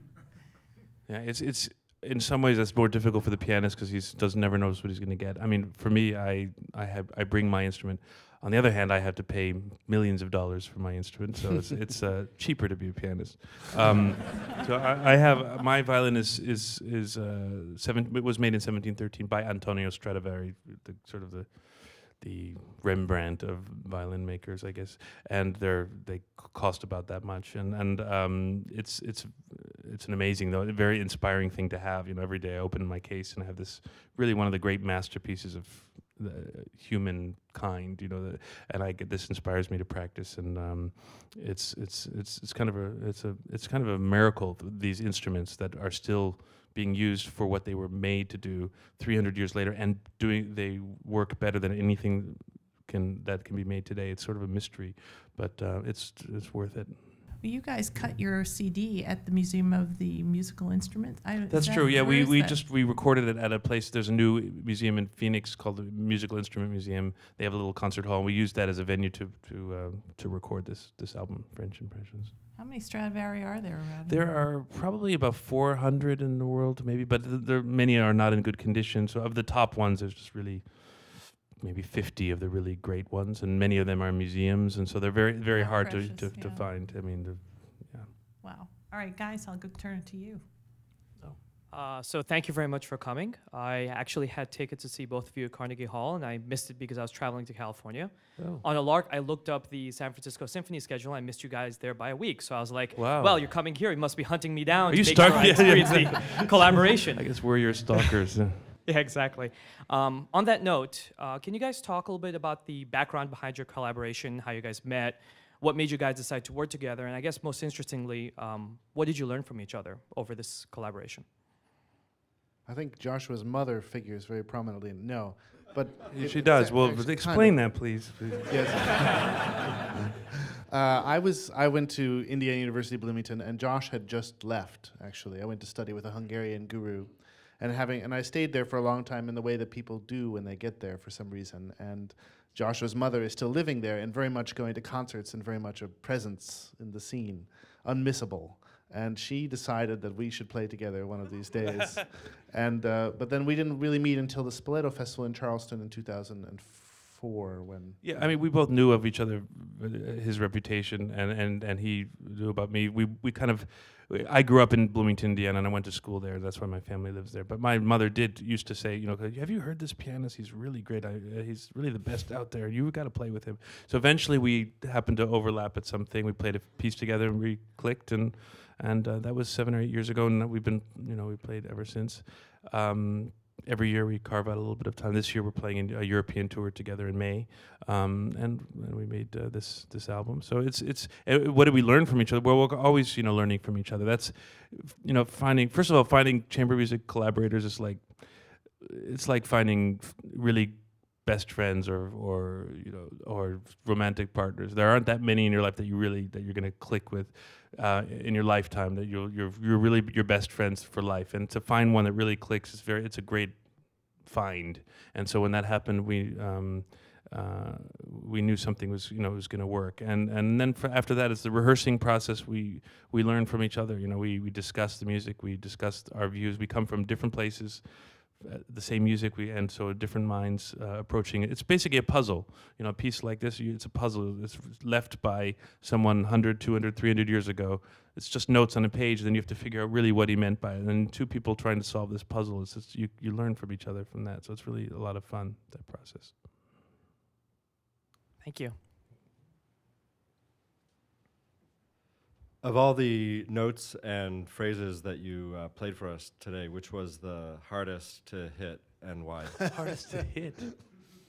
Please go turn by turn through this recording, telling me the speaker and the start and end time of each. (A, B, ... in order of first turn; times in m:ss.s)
0:01.1-0:57.1 A
0:57.4-1:02.6 B
1:01.5-1:12.3 A
1:12.6-1:14.4 B
1:14.1-1:28.1 A
1:25.5-1:26.7 B
1:28.4-1:30.4 B
1:31.7-1:48.1 C
1:38.4-1:38.6 A
1:42.9-1:43.5 A
1:44.9-1:48.7 A
1:48.8-2:01.3 C
2:02.6-2:09.6 D
2:06.1-2:09.2 A
2:10.7-2:38.3 D
2:31.8-2:32.0 A
2:38.0-4:06.4 A
4:08.4-4:08.8 C
4:12.6-4:19.8 E
4:19.7-4:20.7 A